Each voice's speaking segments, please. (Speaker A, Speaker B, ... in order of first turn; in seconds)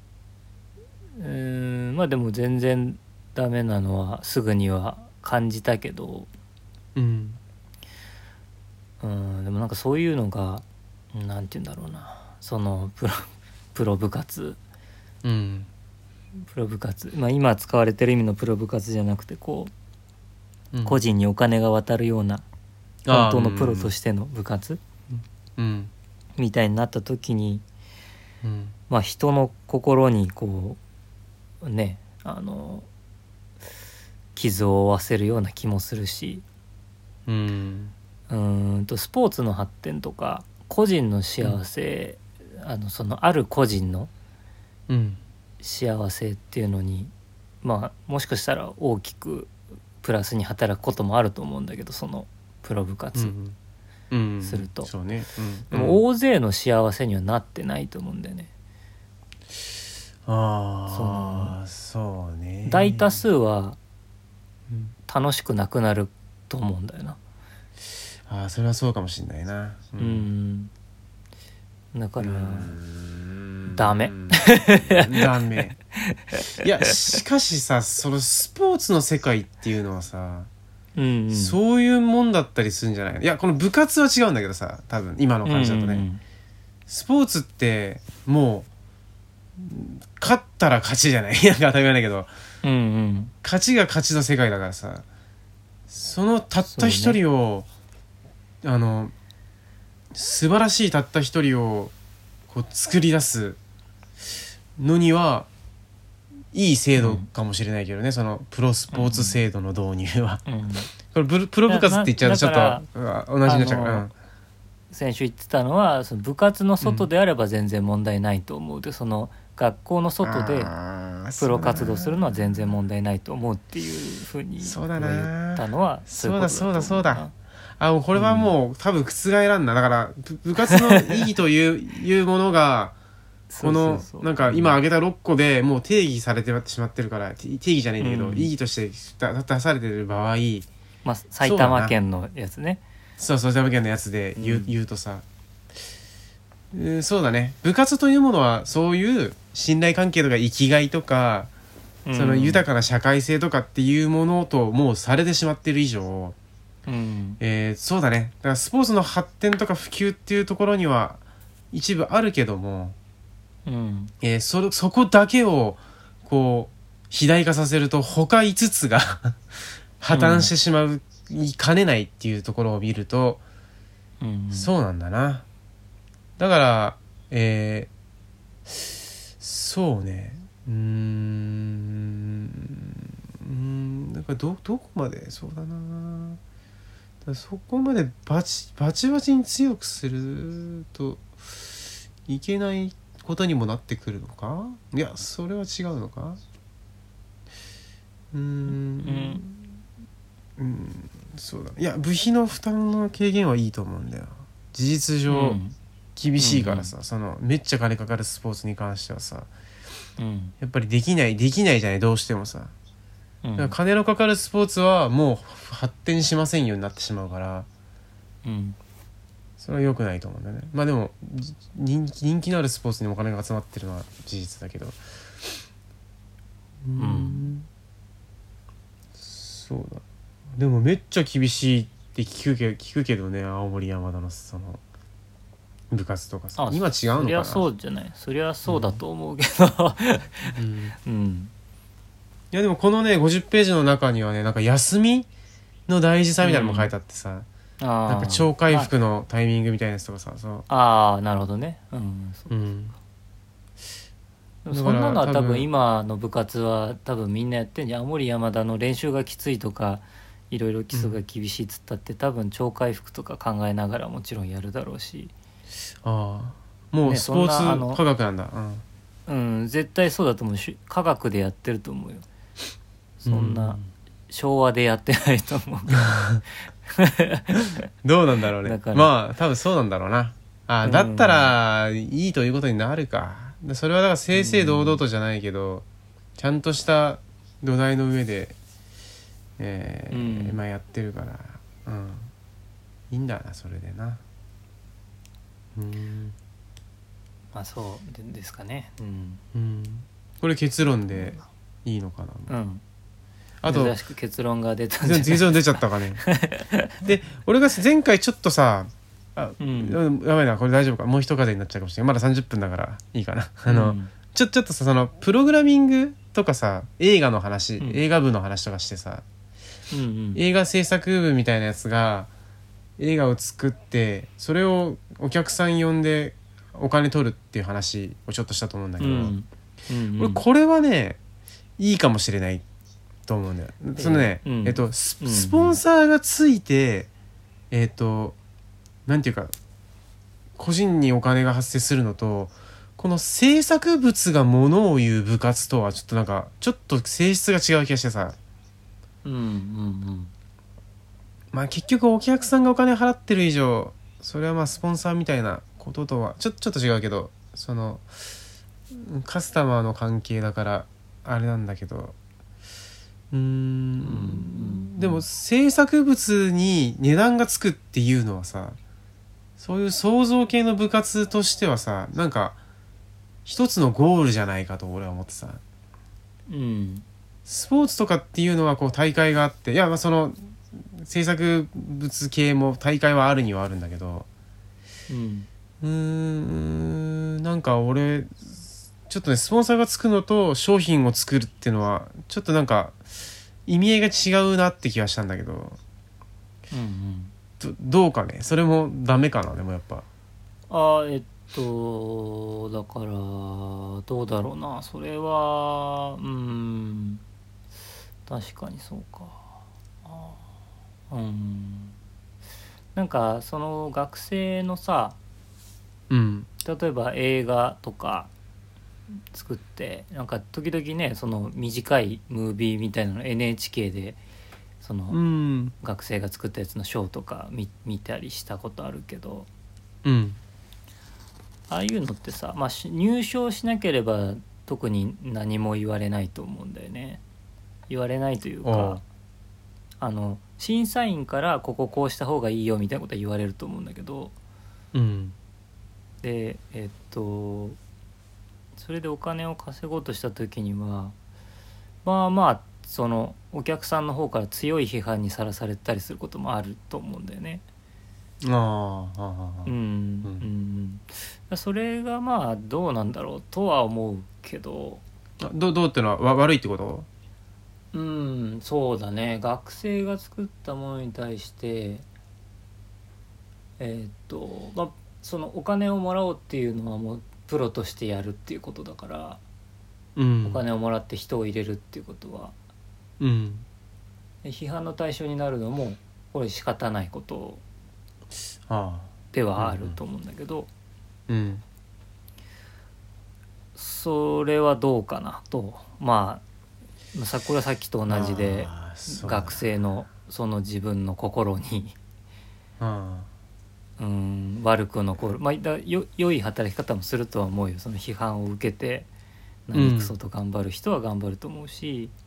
Speaker A: 1.2-6.3, 9.0-14.6, 16.5-19.7, 20.8-22.4, 23.1-24.8, 26.4-27.6, 28.9-30.8, 31.6-32.9, 34.4-36.4, 38.3-44.1, 45.6-47.1, 47.6-53.3, 54.4-54.9, 55.7-58.5, 60.9-61.5, 62.6-63.8, 65.1-67.2, 70.0-70.7, 71.9-72.8, 73.7-75.3, 76.1-76.9, 81.0-81.6, 85.4-86.2, 92.6-93.3, 96.7-97.2, 107.0-107.3, 108.9-109.4, 110.5-110.9, 111.7-112.8, 113.4-114.1, 114.9-120.7, 121.4-127.3, 128.1-128.5, 130.7-131.3, 133.5-134.8, 138.0-138.5, 141.0-142.8, 144.3-144.7, 152.1-152.6, 156.9-157.4, 163.7-164.1, 170.1-170.5, 174.2-174.7, 199.0-199.4, 205.3-205.8, 206.4-206.9, 210.2-210.5, 213.4-213.8, 218.4-218.8, 227.0-227.5, 236.6-241.5, 246.4-246.9, 247.8-248.9, 250.7-252.5, 254.6-265.3, 267.0-268.0, 269.3-272.2, 273.2-273.8, 274.3-276.2, 276.9-277.7, 278.6-279.1, 280.8-281.5, 284.3-285.0, 290.1-290.6, 297.5-299.4, 302.5-302.8, 303.6-306.9, 309.6-310.0, 313.7-314.1, 319.9-320.4, 329.0-330.4, 333.9-335.8, 349.2-350.3, 364.0-365.2, 376.5-377.0, 385.1-385.5, 396.7-397.3, 400.7-407.2, 408.2-410.4, 411.1-411.9, 412.9-415.2, 416.6-418.3, 419.3-424.2, 424.8-425.2, 425.8-429.5, 431.7-437.2, 437.9-439.0, 440.0-444.3, 446.2-447.8, 448.8-451.1, 452.0-457.6, 459.6-465.0, 467.9-472.0, 473.8-479.4, 480.4-482.5, 484.4-487.6, 489.3-490.7, 493.8-496.4, 497.1-501.9, 504.0-509.1, 509.7-512.1
Speaker B: 6.9-7.4, 15.2-15.7, 20.7-21.0, 23.1-23.9, 25.1-25.9, 28.4-28.7, 37.3-37.9, 44.9-45.2, 53.1-53.5, 54.1-56.0, 60.2-63.2, 64.7-64.9, 68.2-70.3, 72.2-75.8, 76.6-80.5, 81.3-86.1, 86.9-88.7, 89.6-92.3, 93.4-95.0, 95.9-97.7, 98.6-99.1, 100.1-101.9, 102.5-103.6, 104.8-105.5, 106.5-110.4, 111.1-114.1, 116.8-117.1, 120.2-122.6, 124.6-127.3, 127.8-132.9, 133.6-140.7, 141.4-141.9, 143.2-145.2, 146.7-151.5, 152.1-156.3, 157.4-161.2, 161.7-162.9, 164.2-169.4, 170.0-173.4, 174.5-175.4, 176.4-177.9, 178.7-186.4, 187.2-196.4, 198.3-199.6, 200.6-205.6, 206.2-209.5, 210.6-212.7, 213.6-217.7, 219.6-225.5, 226.8-227.7, 229.2-230.0, 230.5-234.8, 235.9-237.7, 238.7-239.0, 240.5-240.9, 242.5-245.3, 245.9-247.5, 248.1-250.6, 252.5-252.9, 254.7-255.7, 260.9-261.2, 266.0-268.8, 273.2-273.9, 276.0-276.4, 278.0-285.8, 286.4-288.6, 289.6-292.3, 293.1-294.2, 295.7-296.4, 299.5-302.5, 303.6-303.9, 305.0-306.2, 307.0-319.2, 320.3-322.3, 323.0-329.3, 330.2-331.2, 331.8-332.6, 333.3-337.1, 337.7-338.4, 339.1-339.5, 340.6-348.4, 351.5-358.1, 358.9-362.1, 363.3-368.8, 369.6-372.6, 373.4-375.6, 377.4-384.3, 385.8-393.0, 393.6-395.8, 397.6-400.0, 416.1-416.5, 425.1-425.7, 430.0-430.4, 438.6-439.0, 444.9-445.3, 458.4-459.7, 465.4-467.1, 480.1-480.6, 483.2-483.6, 488.7-490.0, 491.3-491.6, 498.1-499.6, 502.8-503.3, 509.7-510.1